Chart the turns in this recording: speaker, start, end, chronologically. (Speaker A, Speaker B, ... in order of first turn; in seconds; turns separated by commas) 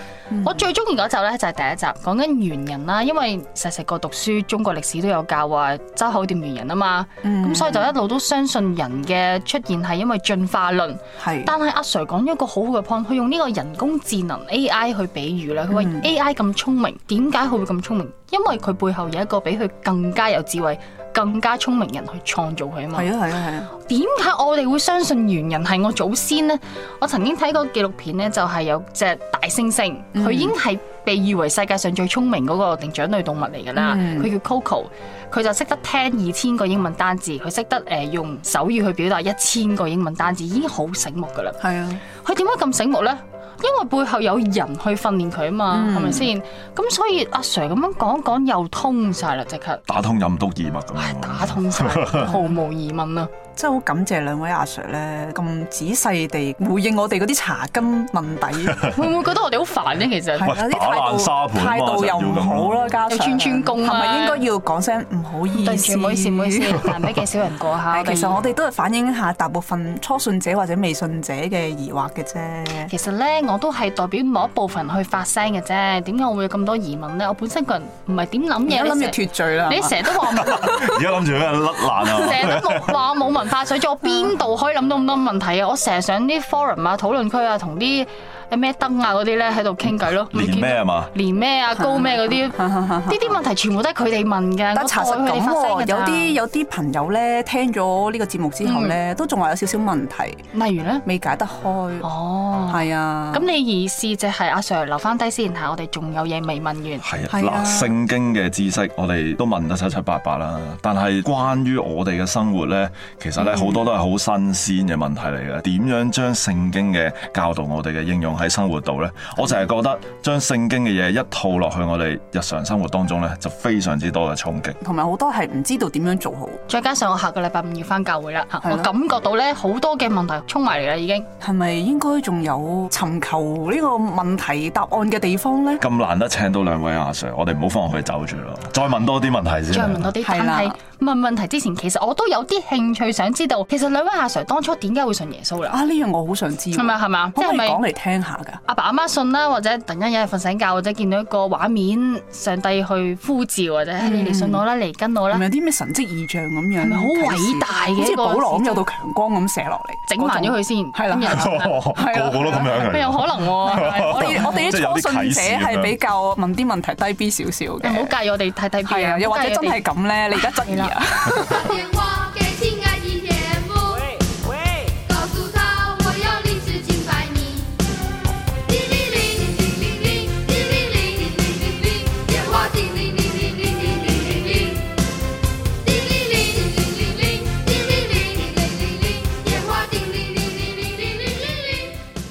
Speaker A: 0.3-0.6, Speaker B: 0.4-23.1, Speaker A: 7.2-7.9, Speaker A: 11.2-11.5, Speaker A: 15.7-16.1, Speaker A: 22.9-23.7, Speaker B: 23.8-41.6, Speaker A: 30.1-30.5, Speaker A: 33.7-34.3, Speaker A: 41.6-42.0, Speaker B: 42.1-49.9, Speaker A: 45.7-46.3, Speaker C: 49.9-52.2, Speaker B: 51.0-53.3, Speaker A: 53.5-58.9, Speaker B: 58.9-60.5, Speaker A: 60.4-66.9, Speaker C: 60.4-62.9, Speaker B: 63.1-64.4, Speaker B: 65.5-68.4, Speaker A: 67.9-72.9, Speaker B: 72.9-80.9, Speaker A: 78.7-80.0, Speaker C: 80.4-82.9, Speaker B: 82.0-96.4, Speaker C: 90.3-91.1, Speaker A: 92.6-93.2, Speaker A: 94.7-100.4, Speaker B: 98.6-99.0, Speaker B: 100.5-101.0, Speaker A: 101.0-102.1, Speaker B: 102.0-107.0, Speaker A: 102.7-103.5, Speaker C: 107.0-124.8, Speaker A: 107.3-107.9, Speaker A: 113.4-113.8, Speaker A: 119.4-119.6, Speaker A: 124.8-126.6, Speaker B: 126.7-131.3, Speaker A: 128.6-128.9, Speaker A: 131.4-135.8, Speaker C: 135.8-140.1, Speaker B: 139.7-145.8, Speaker A: 140.2-140.8, Speaker A: 145.7-148.6, Speaker B: 146.7-147.8, Speaker B: 148.7-155.4, Speaker A: 154.0-154.6, Speaker A: 155.3-162.8, Speaker B: 156.8-158.8, Speaker B: 160.1-161.9, Speaker C: 161.3-165.9, Speaker B: 162.5-164.7, Speaker A: 163.7-168.1, Speaker B: 167.8-170.9, Speaker A: 168.8-171.7, Speaker D: 171.7-173.8, Speaker D: 175.1-177.7, Speaker D: 178.8-184.7, Speaker D: 186.0-191.5